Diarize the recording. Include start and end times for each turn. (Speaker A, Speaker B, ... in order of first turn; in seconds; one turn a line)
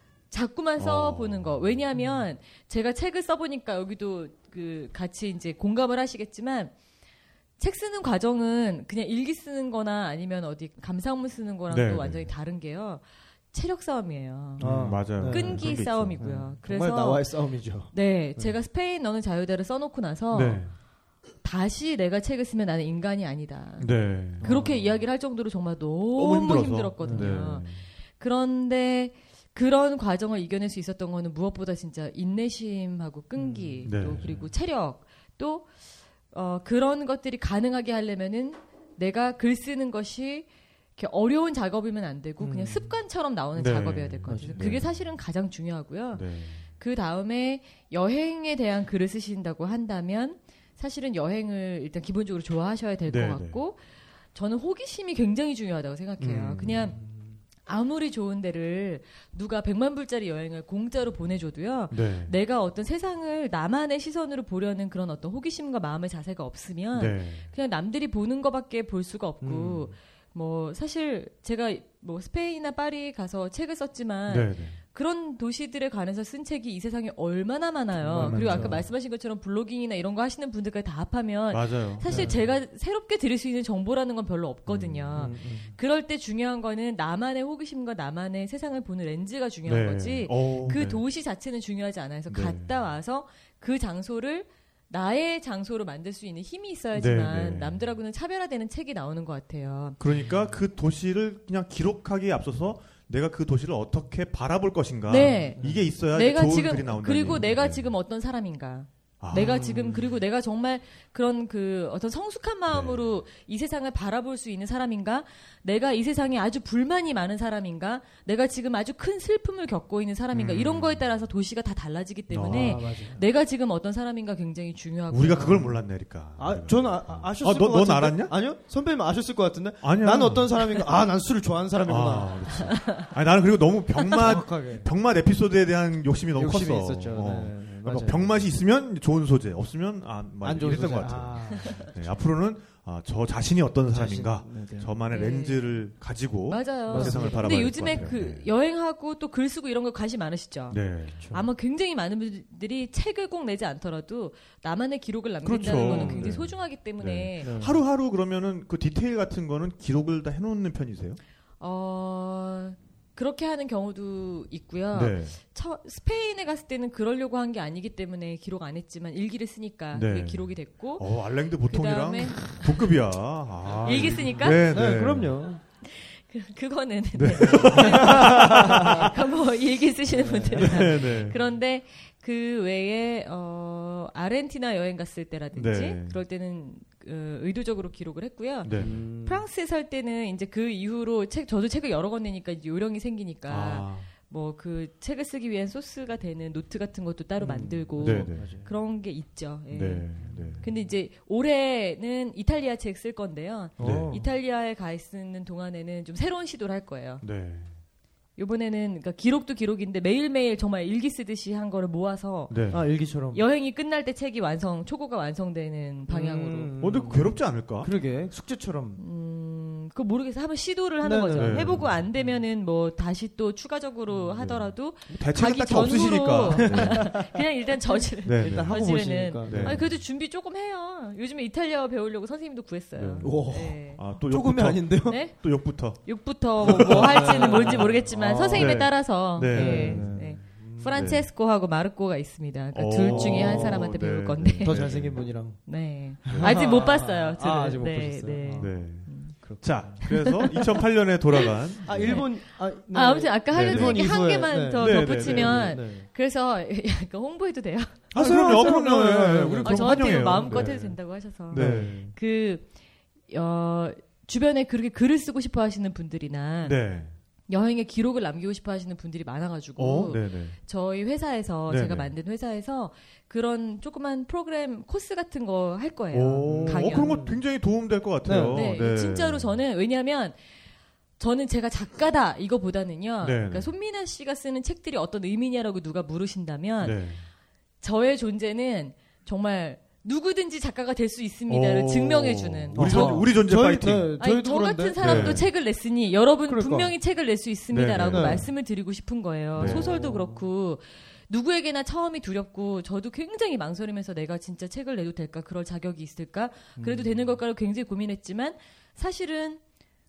Speaker A: 0.3-6.7
Speaker B: 0.8-1.8
Speaker C: 1.9-2.2
Speaker A: 7.6-20.6
Speaker B: 11.7-12.3
Speaker C: 14.6-15.7
Speaker B: 14.6-16.2
Speaker C: 16.2-18.5
Speaker B: 20.3-20.7
Speaker A: 21.4-35.7
Speaker B: 23.8-24.5
Speaker C: 24.4-24.9
Speaker B: 26.1-27.8
Speaker C: 27.1-27.5
Speaker C: 33.4-34.4
Speaker B: 33.8-34.4
Speaker A: 36.3-53.8
Speaker C: 42.4-43.0
Speaker B: 43.5-45.0
Speaker C: 44.3-44.8
Speaker B: 46.1-46.6
Speaker B: 53.1-53.6
Speaker A: 54.3-57.0
Speaker B: 56.2-57.0
Speaker C: 56.9-57.4
Speaker A: 57.6-100.0
Speaker B: 61.9-62.3
Speaker B: 66.9-67.5
Speaker C: 69.4-69.9
Speaker B: 74.3-74.8
Speaker B: 78.0-78.8
Speaker C: 78.1-78.8
Speaker B: 81.5-82.3
Speaker C: 82.1-82.5
Speaker B: 84.7-85.3
Speaker C: 85.2-85.7
Speaker B: 89.7-91.0
Speaker B: 92.3-92.7
Speaker B: 96.9-97.9
Speaker B: 100.0-108.0
Speaker A: 105.1-125.6
Speaker C: 105.2-105.9
Speaker B: 109.2-110.1
Speaker B: 112.7-113.2
Speaker B: 120.3-121.0
Speaker B: 122.3-122.8
Speaker C: 122.4-123.2
Speaker B: 125.1-128.3
Speaker C: 125.3-132.6
Speaker B: 129.8-130.8
Speaker B: 131.8-148.5
Speaker C: 134.1-134.9
Speaker C: 136.3-138.5
Speaker C: 140.4-141.9
Speaker C: 143.8-145.0
Speaker A: 145.1-145.8
Speaker A: 146.5-157.6
Speaker C: 146.9-148.2
Speaker B: 150.7-151.2
Speaker C: 151.2-151.4
Speaker B: 155.4-161.2
Speaker C: 155.6-156.5
Speaker C: 157.4-157.8
Speaker A: 161.6-172.9
Speaker B: 164.9-165.3
Speaker B: 169.9-175.4
Speaker C: 173.7-175.6
Speaker A: 173.8-174.7
Speaker A: 175.8-207.2
Speaker B: 177.1-179.1
Speaker C: 177.4-179.1
Speaker C: 180.2-180.8
Speaker B: 180.6-181.5
Speaker B: 185.5-186.2
Speaker B: 188.6-188.9
Speaker C: 188.8-189.4
Speaker B: 193.5-194.1
Speaker C: 197.4-198.7
Speaker B: 198.0-198.5
Speaker B: 199.7-200.7
Speaker C: 200.2-200.8
Speaker C: 203.8-204.2
Speaker B: 203.8-204.2
Speaker B: 207.2-207.7
Speaker A: 208.3-212.8
Speaker B: 212.5-212.8
Speaker C: 212.7-213.4
Speaker A: 213.3-216.7
Speaker C: 216.1-219.0
Speaker B: 216.8-217.9
Speaker A: 219.0-234.0
Speaker C: 221.0-222.4
Speaker B: 221.3-222.0
Speaker B: 224.3-227.2
Speaker C: 226.5-227.4
Speaker C: 227.9-229.9
Speaker B: 228.2-229.8
Speaker B: 232.9-237.9
Speaker C: 233.2-235.2
Speaker A: 235.1-250.8
Speaker C: 236.6-241.0
Speaker B: 238.5-240.3
Speaker B: 240.9-241.3
Speaker B: 242.7-245.3
Speaker C: 243.0-243.8
Speaker C: 244.6-248.8
Speaker B: 246.3-246.7
Speaker B: 248.6-252.2
Speaker C: 249.4-250.3
Speaker A: 251.4-258.8
Speaker C: 251.8-256.1
Speaker B: 253.5-254.2
Speaker B: 254.8-255.8
Speaker B: 258.1-261.0
Speaker C: 258.1-260.9
Speaker A: 259.6-262.7
Speaker B: 261.5-262.1
Speaker C: 261.5-262.1
Speaker A: 263.3-266.8
Speaker B: 266.6-267.1
Speaker A: 267.5-277.2
Speaker B: 269.8-270.6
Speaker B: 271.7-272.1
Speaker B: 276.1-279.5
Speaker C: 276.4-277.4
Speaker C: 278.2-278.7
Speaker A: 278.5-280.4
Speaker A: 281.2-287.0
Speaker B: 283.2-283.7
Speaker B: 286.8-287.2
Speaker A: 287.8-293.3
Speaker B: 291.5-294.2
Speaker C: 292.7-295.5
Speaker A: 294.2-309.6
Speaker B: 295.0-295.5
Speaker C: 296.4-296.9
Speaker B: 297.7-298.5
Speaker C: 298.1-298.5
Speaker B: 299.6-299.9
Speaker C: 299.6-300.4
Speaker C: 306.8-307.3